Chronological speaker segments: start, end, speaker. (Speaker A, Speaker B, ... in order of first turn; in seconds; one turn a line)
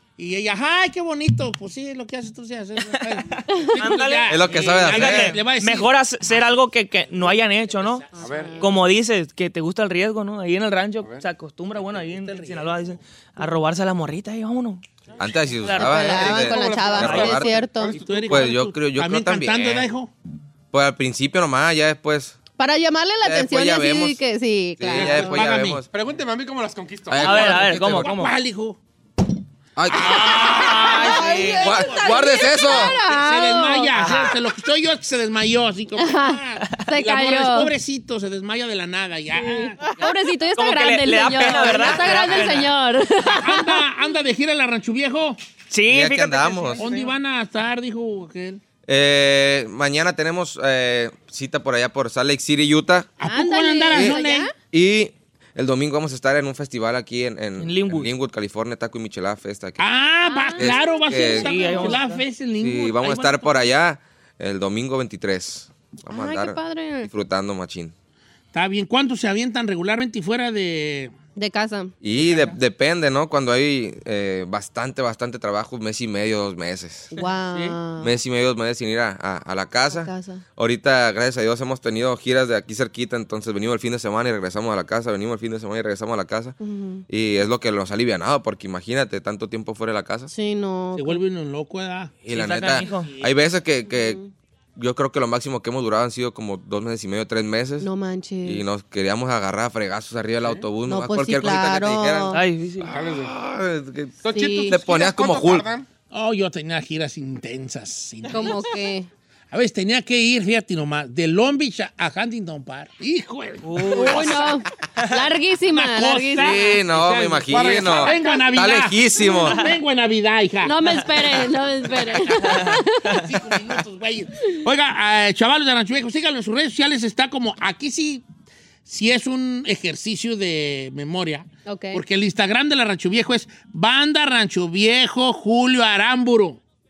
Speaker A: 0.2-6.0
Speaker B: 2.9-8.1
Speaker C: 4.3-5.4
Speaker A: 7.2-8.5
Speaker D: 8.1-8.7
Speaker E: 8.2-8.6
Speaker B: 8.6-14.8
Speaker A: 11.8-13.0
Speaker C: 15.2-17.5
Speaker B: 15.7-16.4
Speaker D: 15.7-18.0
Speaker E: 16.1-18.5
Speaker A: 17.8-20.1
Speaker C: 18.3-19.9
Speaker C: 20.7-22.4
Speaker D: 22.6-25.4
Speaker C: 23.2-24.2
Speaker C: 24.8-25.9
Speaker A: 24.9-25.8
Speaker E: 25.9-27.5
Speaker C: 27.1-28.1
Speaker B: 27.2-28.3
Speaker A: 27.2-28.8
Speaker C: 29.8-33.0
Speaker A: 29.9-40.0
Speaker D: 30.5-33.9
Speaker B: 33.9-34.4
Speaker D: 36.0-37.7
Speaker D: 39.3-43.8
Speaker B: 40.5-42.7
Speaker A: 41.4-42.1
Speaker A: 43.4-45.4
Speaker B: 45.7-46.8
Speaker C: 45.9-46.8
Speaker A: 46.7-48.6
Speaker C: 48.9-53.1
Speaker A: 53.2-54.5
Speaker D: 53.2-54.5
Speaker C: 53.9-59.8
Speaker B: 57.6-58.1
Speaker A: 59.8-63.6
Speaker D: 60.2-62.0
Speaker C: 60.6-61.5
Speaker B: 61.4-62.2
Speaker C: 62.6-67.9
Speaker D: 66.1-67.1
Speaker A: 68.5-71.1
Speaker D: 71.3-71.9
Speaker C: 72.0-77.1
Speaker D: 77.1-78.1
Speaker C: 78.0-86.5
Speaker D: 79.9-80.4
Speaker D: 86.6-87.0
Speaker C: 87.1-90.3
Speaker D: 90.3-91.2
Speaker A: 90.9-93.3
Speaker C: 92.2-94.2
Speaker B: 92.3-93.2
Speaker D: 93.9-94.3
Speaker C: 94.8-97.9
Speaker D: 97.8-98.7
Speaker C: 98.4-102.3
Speaker D: 100.9-102.4
Speaker B: 102.3-102.9
Speaker E: 102.8-103.3
Speaker C: 103.0-105.7
Speaker E: 104.2-105.9
Speaker D: 104.3-104.8
Speaker A: 106.1-108.7
Speaker D: 108.3-109.1
Speaker A: 109.5-114.6
Speaker B: 113.6-115.2
Speaker D: 113.9-116.8
Speaker A: 115.7-128.2
Speaker C: 116.4-119.6
Speaker E: 117.5-118.1
Speaker D: 118.0-118.6
Speaker D: 119.2-119.6
Speaker D: 120.6-123.2
Speaker B: 122.4-123.3
Speaker A: 128.8-136.6
Speaker D: 131.7-132.0